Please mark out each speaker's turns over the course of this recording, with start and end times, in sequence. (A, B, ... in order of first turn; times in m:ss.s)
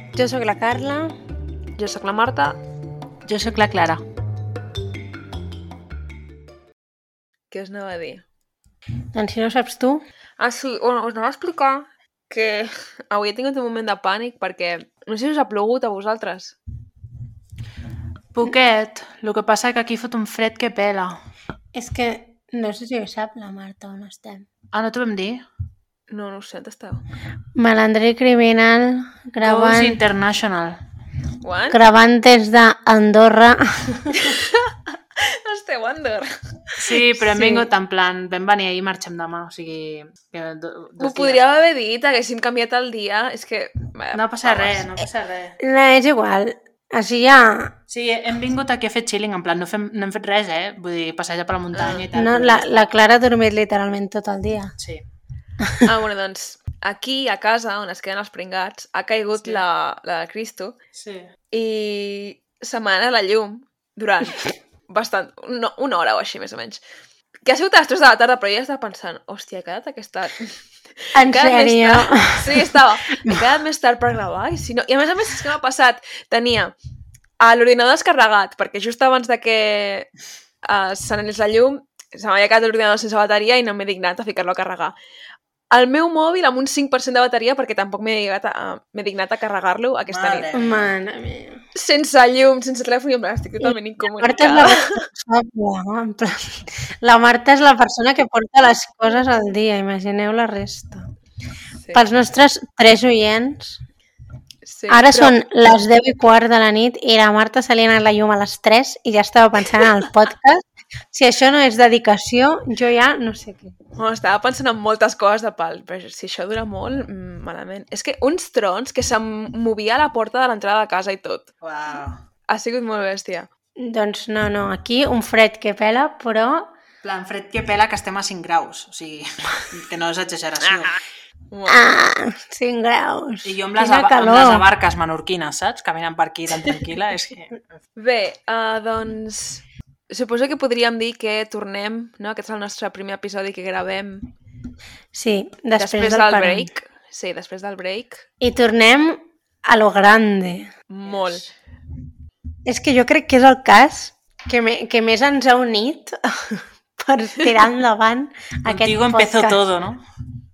0:00.1-0:01.2 A
0:01.8-0:02.6 B
0:03.2-0:04.0 C
0:07.5-0:08.2 B
0:09.2-0:10.0 A
0:10.4-0:16.6 B
0:18.3-0:21.2 C
0:21.7-0:24.5 A
0:24.7-0:25.4 C
0:26.1-0:27.0 B
0:27.6-0:30.0 A
0:29.4-0:30.8 C
0:31.4-0:31.8 B
0:31.7-0:34.3 A
0:34.2-0:36.4 B
0:36.8-0:41.4 C
0:37.2-0:37.7 A
0:41.0-0:44.9 B
0:44.1-0:45.6 C
0:45.6-0:47.8 A
0:47.9-0:52.9 C
0:51.7-0:52.0 B
0:52.1-0:54.7 A
0:55.8-1:00.8 B
1:00.9-1:01.3 C
1:01.5-1:06.8 B
1:07.5-1:16.7 B
1:11.2-1:13.3 A
1:17.4-1:20.1 B
1:20.6-1:25.0 B
1:25.7-1:30.5 B
1:30.1-1:31.0 C
1:30.5-1:31.6 A
1:31.8-1:35.0 B
1:33.6-1:41.1 A
1:41.8-1:42.0 B
1:41.9-1:43.8 A
1:44.6-1:45.4 B
1:44.9-1:53.8 A
1:54.0-2:01.5 B
2:01.6-2:02.2 C
2:02.5-2:03.5 B
2:03.8-2:06.7 A
2:07.0-2:11.0 C
2:11.5-2:11.9 B
2:11.7-2:14.7 A
2:13.4-2:17.7 C
2:18.0-2:24.3 B
2:25.1-2:26.7 A
2:25.8-2:28.2 B
2:28.4-2:30.7 A
2:30.9-2:31.4 B
2:31.1-2:31.4 C
2:32.6-2:39.6 A
2:38.6-2:40.0 C